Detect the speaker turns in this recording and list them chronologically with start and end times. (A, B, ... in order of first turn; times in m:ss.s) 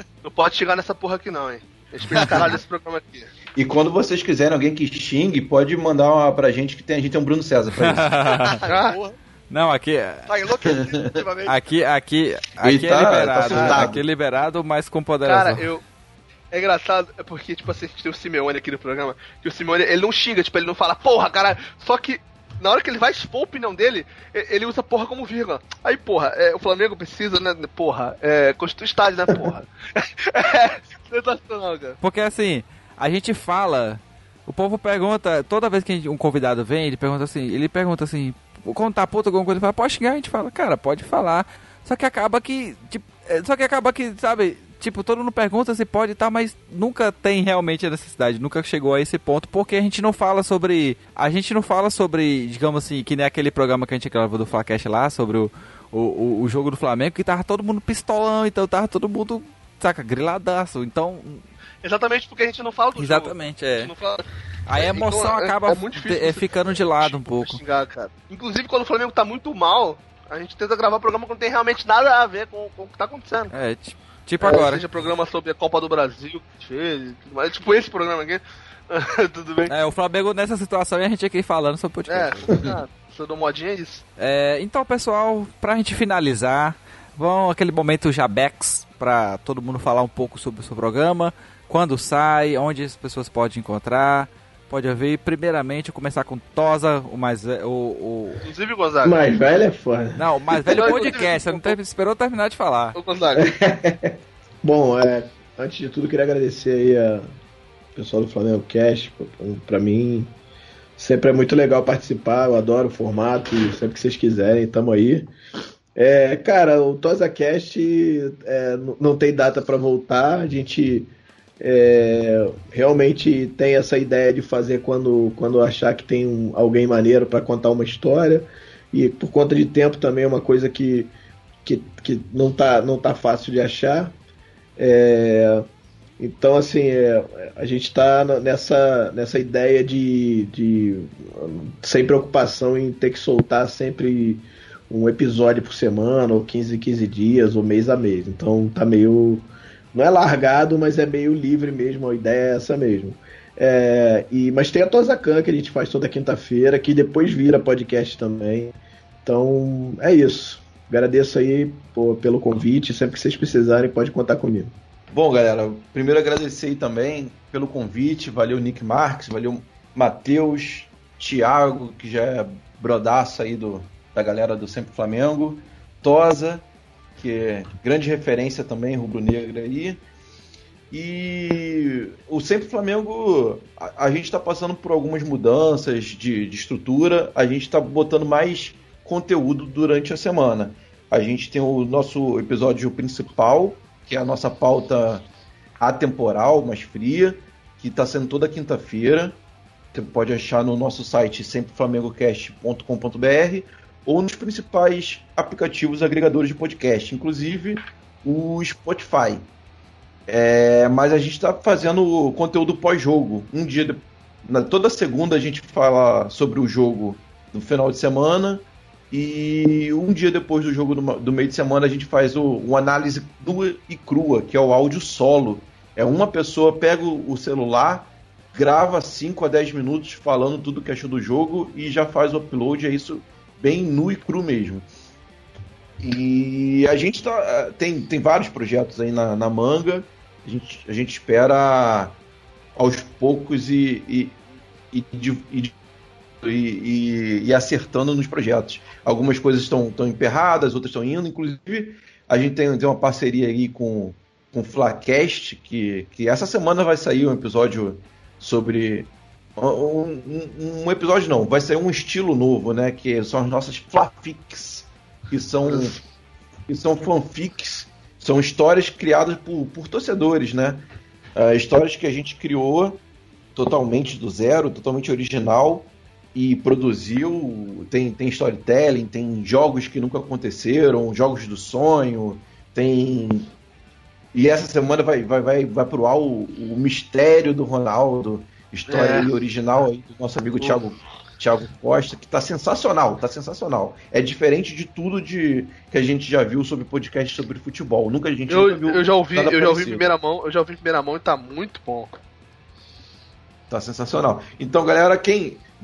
0:00.2-0:03.3 A
0:03.5-0:08.3 B
0:07.8-0:08.5 C
0:08.2-0:09.2 D
0:08.7-0:09.0 A
0:09.5-0:10.3 C
0:10.3-0:11.6 D
0:10.6-0:11.2 B
0:11.4-0:15.7 C
0:12.6-0:14.0 B
0:13.4-0:13.8 E
0:15.2-0:15.8 A
0:16.5-0:32.0 A
0:32.0-1:01.4 C
1:01.8-1:04.2 A
1:03.0-1:03.9 C
1:04.7-1:07.6 C
1:04.8-1:13.5 A
1:13.5-1:14.8 C
1:14.4-1:19.7 A
1:19.7-1:22.6 C
1:22.1-1:24.0 A
1:24.2-1:38.4 C
1:38.4-1:39.2 A
1:39.0-1:41.1 E
1:40.2-1:43.0 C
1:40.7-1:41.8 A
1:43.0-1:43.4 A
1:43.3-1:47.3 E
1:48.0-1:50.3 E
1:51.0-1:55.3 E
1:56.0-2:14.2 E
2:14.8-2:15.7 E
2:16.2-2:44.7 E
2:45.1-2:56.6 B
2:57.2-3:00.0 B
3:00.9-3:15.3 B
3:15.8-3:19.4 B
3:19.9-3:29.5 B
3:30.3-3:54.8 B
3:56.0-4:02.2 B
4:02.8-4:04.4 B
4:04.9-4:05.7 B
4:06.4-4:26.0 B
4:25.6-4:26.0 A
4:26.7-4:33.0 B
4:33.5-4:43.5 B
4:44.3-5:00.0 B
4:48.9-4:49.3 A
4:58.5-5:02.2 A
5:03.7-5:05.7 B